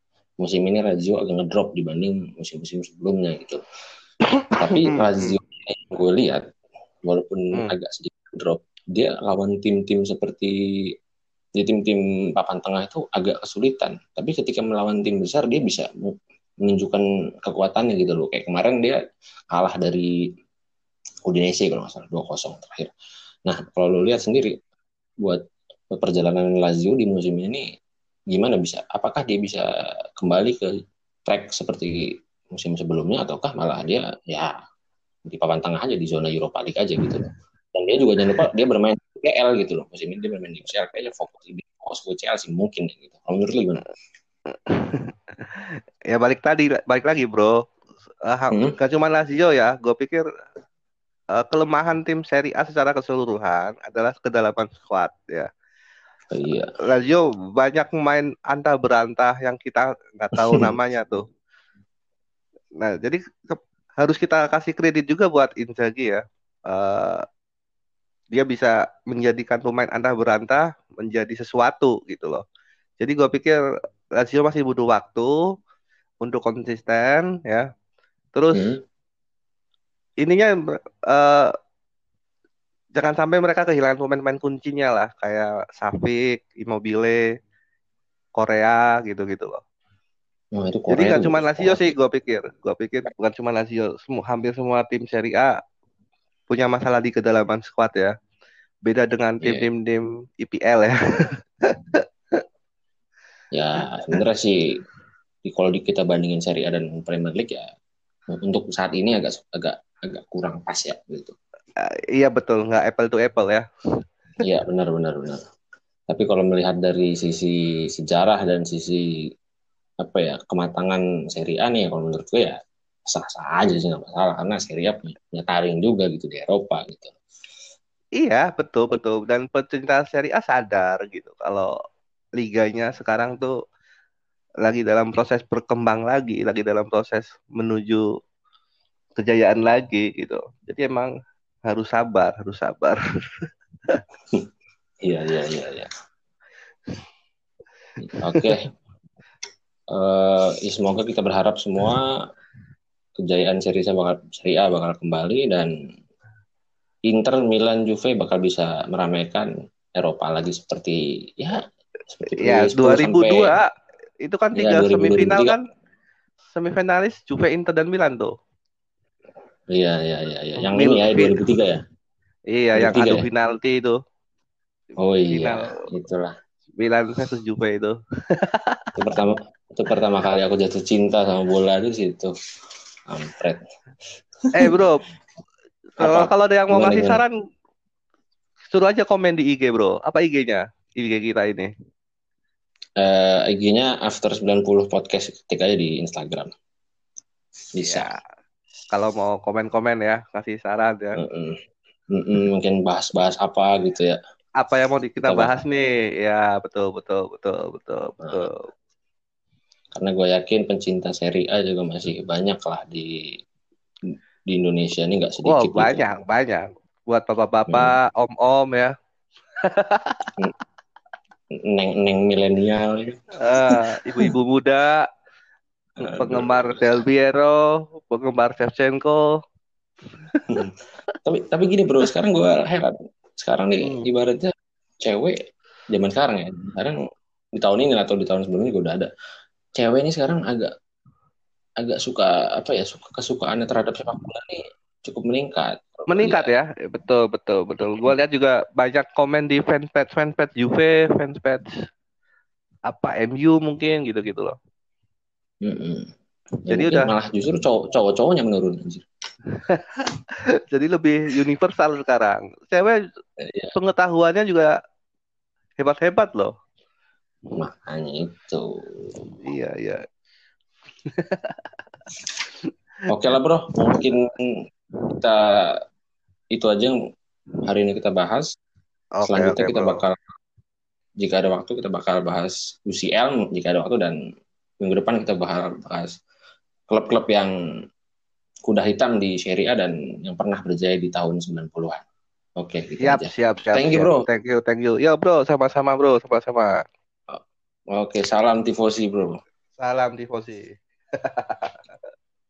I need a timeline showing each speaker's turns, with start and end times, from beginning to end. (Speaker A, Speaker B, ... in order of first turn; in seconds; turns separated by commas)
Speaker A: 0.4-3.6, Speaker B: 4.4-5.3, Speaker A: 4.5-6.4, Speaker A: 7.0-10.5, Speaker A: 11.6-15.9, Speaker A: 16.6-19.0, Speaker A: 19.5-20.1, Speaker A: 21.2-22.9, Speaker A: 23.4-24.6, Speaker A: 25.2-27.6, Speaker A: 28.3-29.6, Speaker A: 30.2-30.7, Speaker A: 31.2-34.5, Speaker A: 35.3-43.8, Speaker B: 44.6-47.6, Speaker B: 48.2-50.2, Speaker B: 51.4-55.5, Speaker A: 56.3-56.7, Speaker B: 56.9-61.2, Speaker A: 60.4-60.7, Speaker B: 62.8-67.2, Speaker B: 68.3-72.4, Speaker B: 73.0-73.6, Speaker B: 74.2-75.3, Speaker B: 76.2-77.7, Speaker B: 78.3-78.7, Speaker A: 78.5-78.8, Speaker B: 80.2-81.5, Speaker B: 83.0-87.2, Speaker B: 88.4-89.6, Speaker A: 90.5-91.9, Speaker B: 90.9-95.5, Speaker B: 96.5-98.1, Speaker B: 98.8-102.4, Speaker A: 103.5-104.5, Speaker A: 105.4-107.7, Speaker A: 108.3-111.3, Speaker B: 111.8-113.7, Speaker A: 114.4-115.4, Speaker A: 116.1-119.0, Speaker A: 120.0-122.5, Speaker A: 123.1-127.1, Speaker B: 128.2-131.7, Speaker B: 132.4-133.5, Speaker B: 134.6-138.1, Speaker B: 139.2-141.1, Speaker B: 141.7-144.0, Speaker A: 145.0-145.9, Speaker A: 148.1-148.6, Speaker B: 148.1-148.6, Speaker A: 149.9-152.1, Speaker A: 153.2-155.7, Speaker A: 157.1-163.5, Speaker B: 162.3-163.6, Speaker B: 164.2-165.6, Speaker A: 164.5-165.6, Speaker B: 166.6-168.3, Speaker A: 169.7-171.8, Speaker B: 170.6-171.3, Speaker B: 172.5-174.0, Speaker A: 172.8-173.2, Speaker A: 175.0-176.3, Speaker B: 175.3-175.7, Speaker B: 176.8-178.8, Speaker A: 178.9-182.3, Speaker A: 183.1-183.6, Speaker B: 184.5-185.0, Speaker B: 186.0-187.3, Speaker A: 186.0-187.2, Speaker B: 188.7-191.7, Speaker A: 193.0-196.5, Speaker A: 197.7-198.1, Speaker B: 197.8-198.2, Speaker B: 198.9-201.2, Speaker A: 201.2-201.6, Speaker A: 202.1-204.2, Speaker B: 204.6-208.7, Speaker A: 205.2-205.6, Speaker A: 208.2-208.5, Speaker A: 209.9-213.2, Speaker A: 214.5-216.0, Speaker B: 215.4-218.9, Speaker A: 217.7-217.9, Speaker B: 219.6-220.3, Speaker A: 221.5-223.2, Speaker B: 223.4-225.1, Speaker A: 223.7-224.3, Speaker A: 226.0-227.0, Speaker B: 226.0-229.2, Speaker B: 230.3-230.6, Speaker A: 231.2-235.3, Speaker B: 233.8-234.1, Speaker A: 235.9-237.0, Speaker A: 237.5-239.1, Speaker A: 239.8-240.7, Speaker A: 241.8-246.5, Speaker B: 246.1-251.8, Speaker B: 252.9-254.6, Speaker A: 255.6-256.1, Speaker A: 256.7-259.0, Speaker B: 256.7-257.1, Speaker B: 259.6-263.0, Speaker A: 263.4-263.7, Speaker B: 263.7-264.7, Speaker B: 265.8-266.5, Speaker A: 267.5-269.1, Speaker B: 269.3-270.0, Speaker B: 271.1-271.7, Speaker A: 273.1-274.5, Speaker A: 275.1-275.7, Speaker A: 276.5-276.9, Speaker A: 277.6-278.5, Speaker B: 279.2-280.0, Speaker A: 279.2-280.2, Speaker A: 281.2-284.2, Speaker A: 284.8-286.1, Speaker A: 286.9-287.5, Speaker A: 288.6-292.0, Speaker A: 292.6-294.2, Speaker B: 293.0-296.8, Speaker A: 297.9-299.4, Speaker B: 299.8-301.8